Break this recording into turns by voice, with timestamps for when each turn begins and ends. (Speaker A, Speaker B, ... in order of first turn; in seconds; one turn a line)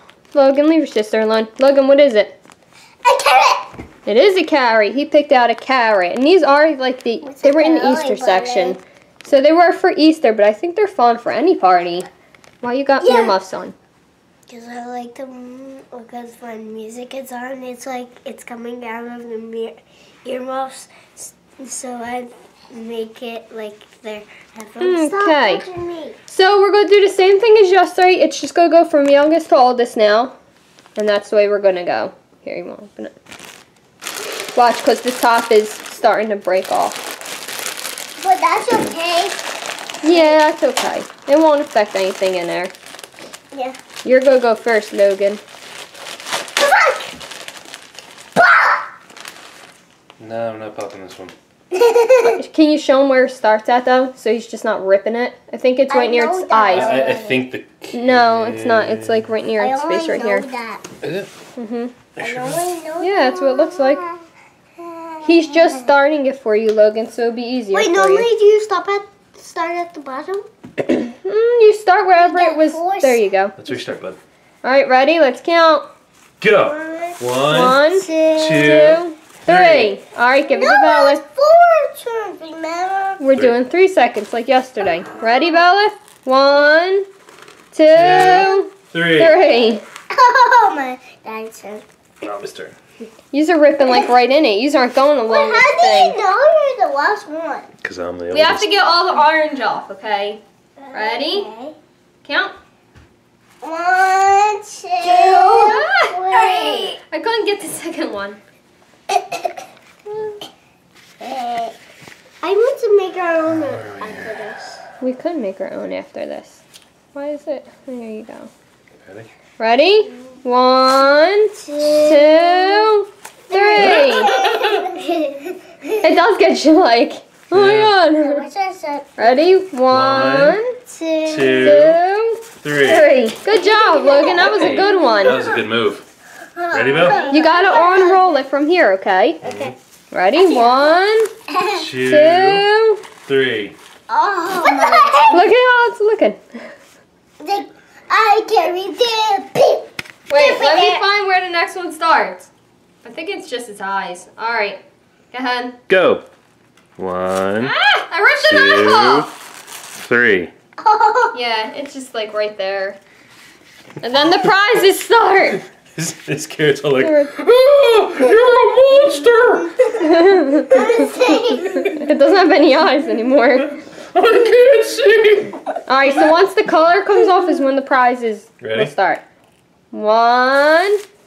Speaker A: 0.3-2.4
Speaker B: 3.0-3.7
Speaker A: 4.0-12.1
Speaker B: 7.2-8.8
Speaker A: 12.6-13.7
Speaker B: 13.0-13.4
Speaker B: 14.5-26.1
Speaker A: 24.8-25.6
Speaker A: 26.3-30.3
Speaker A: 30.9-33.1
Speaker A: 34.5-37.0
Speaker B: 38.2-39.4
Speaker A: 40.0-42.7
Speaker B: 40.0-40.3
Speaker B: 43.5-43.8
Speaker A: 44.0-45.4
Speaker B: 46.6-47.1
Speaker B: 48.4-48.8
Speaker C: 50.2-51.3
Speaker B: 51.7-52.4
Speaker A: 52.3-56.9
Speaker B: 55.9-57.4
Speaker C: 56.7-59.3
Speaker A: 57.9-60.5
Speaker B: 59.6-60.8
Speaker C: 61.0-61.3
Speaker A: 61.6-61.9
Speaker C: 62.1-62.7
Speaker B: 62.2-64.2
Speaker A: 63.0-64.1
Speaker B: 64.8-65.8
Speaker A: 65.2-68.3
Speaker B: 67.7-70.5
Speaker A: 71.0-73.5
Speaker B: 72.2-73.2
Speaker C: 73.6-74.2
Speaker A: 74.6-75.9
Speaker C: 76.4-77.8
Speaker B: 76.7-78.8
Speaker A: 77.5-78.1
Speaker C: 78.3-80.0
Speaker A: 78.6-81.2
Speaker B: 80.4-83.2
Speaker A: 83.2-87.1
Speaker A: 87.7-89.8
Speaker C: 87.9-89.3
Speaker B: 90.1-91.8
Speaker C: 92.2-92.8
Speaker A: 93.3-96.2
Speaker B: 95.3-97.7
Speaker C: 97.8-98.7
Speaker A: 98.3-100.4
Speaker B: 100.8-101.7
Speaker A: 100.9-101.5
Speaker A: 102.2-102.5
Speaker B: 103.6-107.0
Speaker A: 105.0-108.4
Speaker B: 109.1-109.6
Speaker A: 110.1-110.4
Speaker B: 111.2-111.7
Speaker B: 112.4-114.8
Speaker C: 113.5-114.3
Speaker A: 115.0-116.6
Speaker A: 117.1-118.5
Speaker C: 119.0-119.3
Speaker A: 119.6-124.3
Speaker B: 121.6-122.8
Speaker B: 123.5-125.9
Speaker C: 123.8-124.9
Speaker A: 126.0-128.4
Speaker C: 127.5-127.9
Speaker B: 128.2-129.1
Speaker A: 129.2-130.7
Speaker C: 129.9-130.6
Speaker B: 130.9-131.8
Speaker C: 131.2-132.0
Speaker A: 131.6-135.4
Speaker C: 132.6-133.1
Speaker B: 133.5-135.6
Speaker C: 134.4-136.0
Speaker B: 136.6-138.3
Speaker C: 136.7-137.2
Speaker A: 137.3-139.4
Speaker C: 139.4-139.7
Speaker B: 139.4-139.7
Speaker A: 140.1-141.3
Speaker B: 140.3-140.8
Speaker B: 141.5-141.8
Speaker C: 141.7-142.6
Speaker A: 142.0-143.0
Speaker C: 143.2-143.8
Speaker B: 144.1-145.4
Speaker A: 145.3-146.7
Speaker B: 147.4-151.0
Speaker A: 150.3-152.5
Speaker A: 153.0-154.8
Speaker A: 155.3-155.8
Speaker C: 155.9-156.2
Speaker C: 157.0-157.7
Speaker A: 157.6-159.3
Speaker C: 158.4-159.3
Speaker C: 160.0-160.5
Speaker B: 160.8-161.3
Speaker A: 161.3-163.0
Speaker A: 164.0-165.6
Speaker C: 165.9-169.8
Speaker A: 167.0-167.3
Speaker A: 170.0-173.8
Speaker B: 170.7-172.0
Speaker C: 174.1-175.6
Speaker A: 175.9-179.2
Speaker C: 178.6-178.9
Speaker A: 179.9-181.0